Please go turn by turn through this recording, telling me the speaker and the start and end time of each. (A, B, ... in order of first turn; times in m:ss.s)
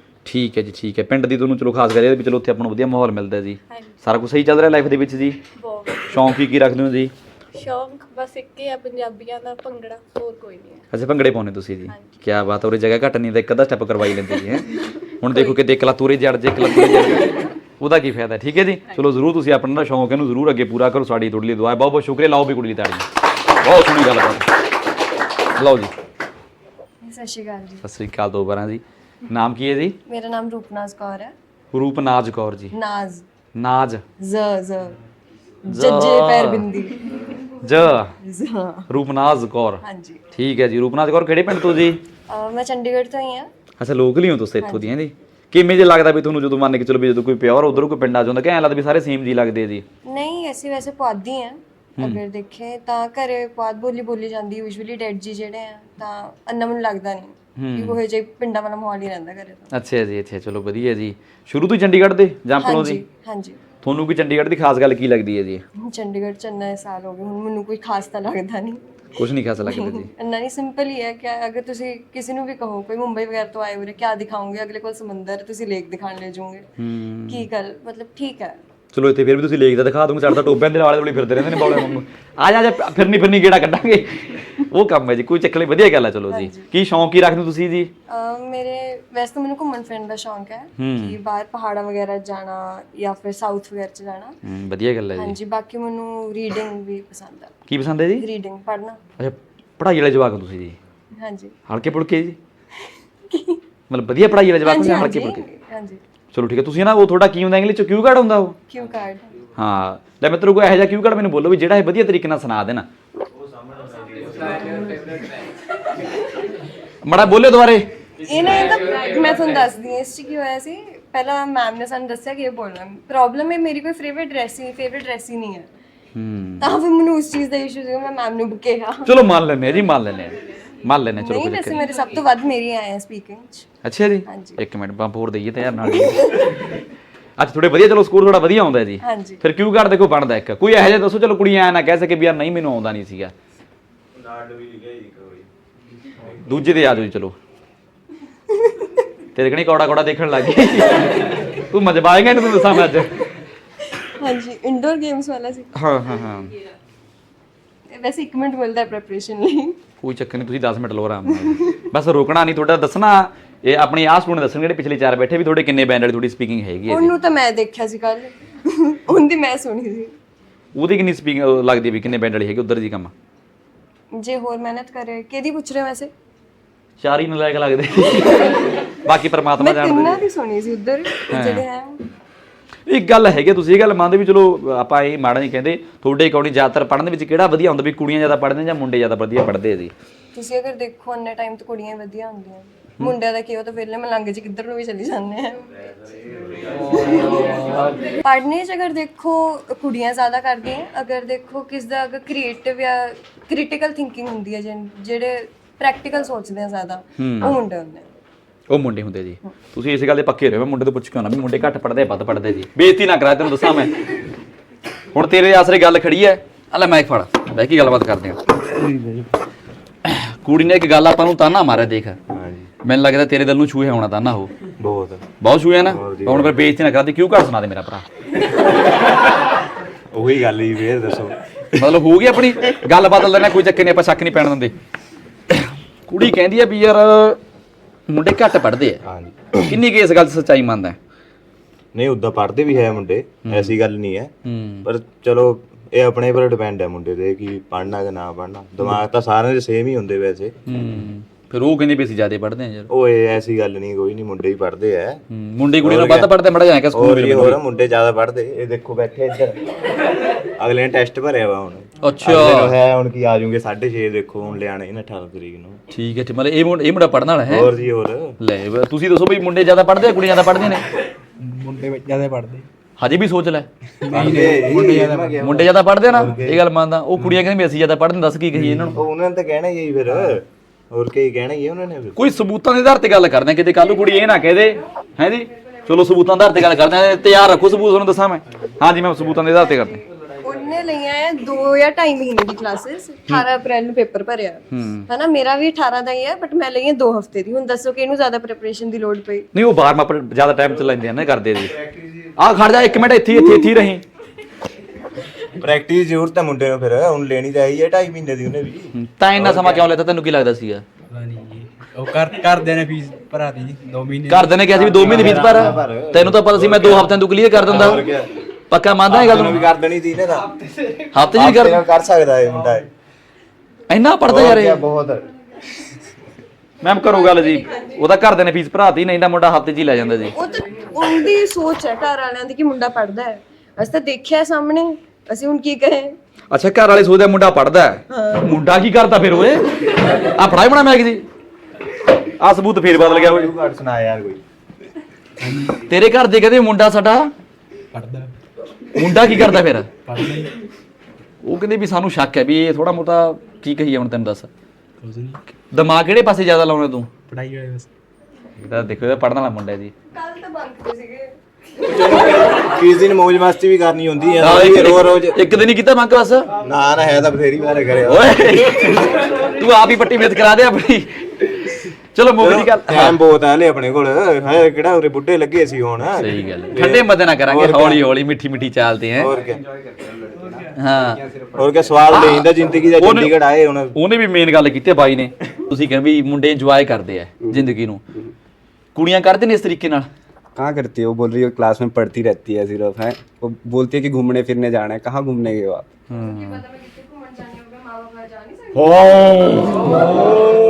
0:00.2-0:05.4 A
0:03.7-0:04.0 B
0:05.6-0:06.4 B
0:06.1-0:07.1 A
0:07.5-0:10.8 B
0:10.9-0:23.1 A
0:11.9-0:12.2 B
0:14.3-0:15.6 B
0:16.6-0:17.5 B
0:23.6-0:24.5 A
0:25.6-0:25.9 A
0:27.0-0:27.8 C
0:27.8-0:30.0 A
0:30.1-0:31.3 C
0:31.7-0:32.7 A
0:32.7-0:33.2 C
0:33.5-0:34.0 A
0:34.2-0:35.0 C
0:35.7-0:37.3 C
0:35.7-0:36.6 A
0:37.6-0:38.1 A
0:38.2-0:38.9 C
0:38.9-0:39.8 A
0:39.8-0:40.2 C
0:40.3-0:42.0 A
0:42.3-0:43.5 C
0:43.8-0:49.8 A
0:44.6-0:44.9 C
0:50.1-0:59.7 C
0:57.6-0:58.0 A
0:59.7-1:03.0 A
1:02.6-1:03.6 C
1:03.8-1:05.6 A
1:05.8-1:08.8 C
1:09.2-1:10.1 A
1:09.6-1:16.6 C
1:16.8-1:17.4 A
1:17.3-1:18.6 C
1:18.9-1:27.9 A
1:26.3-1:26.7 C
1:28.1-1:34.4 C
1:30.8-1:31.2 A
1:34.4-1:35.3 A
1:35.2-1:37.5 C
1:37.7-1:38.2 A
1:38.2-1:39.0 C
1:39.2-1:40.8 A
1:41.2-1:41.5 C
1:41.7-1:42.4 A
1:43.3-1:43.6 C
1:43.9-1:45.4 A
1:44.6-1:46.0 C
1:46.3-1:48.6 A
1:48.7-1:49.3 C
1:49.6-1:52.9 A
1:54.0-1:54.7 D
1:57.0-1:57.9 A
1:58.2-2:05.7 C
2:06.2-2:06.7 A
2:06.6-2:09.2 C
2:09.0-2:11.8 A
2:11.2-2:13.7 C
2:13.8-2:16.3 A
2:14.2-2:14.6 C
2:17.4-2:23.3 A
2:19.0-2:19.4 C
2:24.2-2:25.4 D
2:26.4-2:27.4 A
2:28.6-2:28.9 C
2:29.3-2:33.2 A
2:34.0-2:35.7 C
2:35.8-2:36.5 A
2:37.9-2:39.8 C
2:40.0-2:47.1 A
2:41.4-2:41.8 C
2:46.9-2:50.1 C
2:50.7-2:53.1 A
2:54.2-2:56.1 C
2:57.0-3:00.2 A
2:59.6-3:02.0 C
3:01.3-3:01.6 A
3:02.9-3:09.9 A
3:10.3-3:15.7 C
3:16.5-3:16.9 D
3:16.9-3:28.0 C
3:27.2-3:27.6 A
3:28.7-3:34.2 A
3:35.1-3:38.4 A
3:38.6-3:39.3 D
3:40.0-3:42.2 A
3:42.3-3:42.7 D
3:42.8-3:44.5 A
3:44.8-3:45.2 D
3:45.4-3:48.0 A
3:45.8-3:46.6 D
3:50.1-3:51.8 D
3:51.8-3:54.7 A
3:55.5-3:57.4 A
3:58.1-3:59.0 A
3:59.0-3:59.7 D
3:59.7-4:01.0 A
4:01.9-4:04.3 D
4:03.4-4:03.7 A
4:04.4-4:04.8 A
4:04.8-4:10.5 D
4:10.6-4:12.9 A
4:12.9-4:15.2 D
4:15.3-4:17.6 A
4:15.8-4:16.3 D
4:16.9-4:19.6 D
4:20.6-4:25.8 D
4:22.0-4:22.7 A
4:25.9-4:27.7 A
4:27.5-4:28.3 D
4:28.4-4:30.8 A
4:31.4-4:32.7 E
4:33.0-4:33.7 A
4:34.0-4:35.4 E
4:34.1-4:36.6 D
4:35.4-4:39.0 A
4:38.5-4:42.2 D
4:38.6-4:38.9 E
4:42.2-4:50.0 A
4:49.7-4:59.5 C
4:54.7-4:55.1 A
4:59.5-5:01.7 A
5:01.6-5:02.3 D
5:02.4-5:04.0 A
5:05.6-5:09.8 D
5:09.0-5:10.8 A
5:11.1-5:15.8 E
5:14.2-5:18.0 A
5:14.7-5:18.3 D
5:18.7-5:19.7 A
5:19.1-5:20.5 D
5:21.1-5:21.8 A
5:21.3-5:22.9 D
5:23.9-5:24.8 A
5:24.2-5:25.3 D
5:26.8-5:30.3 A
5:27.2-5:28.0 C
5:30.3-5:36.2 C
5:36.5-5:41.2 A
5:38.1-5:38.4 C
5:42.4-5:43.5 A
5:42.9-5:44.4 D
5:45.4-5:45.8 E
5:45.9-5:47.3 A
5:47.9-5:48.3 E
5:48.9-5:49.9 A
5:50.0-5:50.5 E
5:51.4-5:54.5 A
5:55.0-5:55.4 E
5:55.7-5:57.1 A
5:57.3-5:57.9 E
5:58.6-5:59.9 A
6:00.1-6:02.6 C
6:01.8-6:05.4 D
6:04.4-6:06.5 A
6:06.6-6:08.9 D
6:08.0-6:11.5 A
6:12.1-6:13.2 A
6:12.4-6:18.0 D
6:16.2-6:19.3 A
6:19.2-6:19.6 D
6:19.3-6:22.2 F
6:20.8-6:21.2 A
6:21.6-6:23.9 D
6:22.1-6:23.3 A
6:23.9-6:28.0 A
6:27.4-6:28.3 F
6:28.9-6:30.1 A
6:30.6-6:35.9 F
6:36.1-6:36.6 A
6:36.1-6:39.1 C
6:38.9-6:39.6 A
6:39.7-6:40.5 C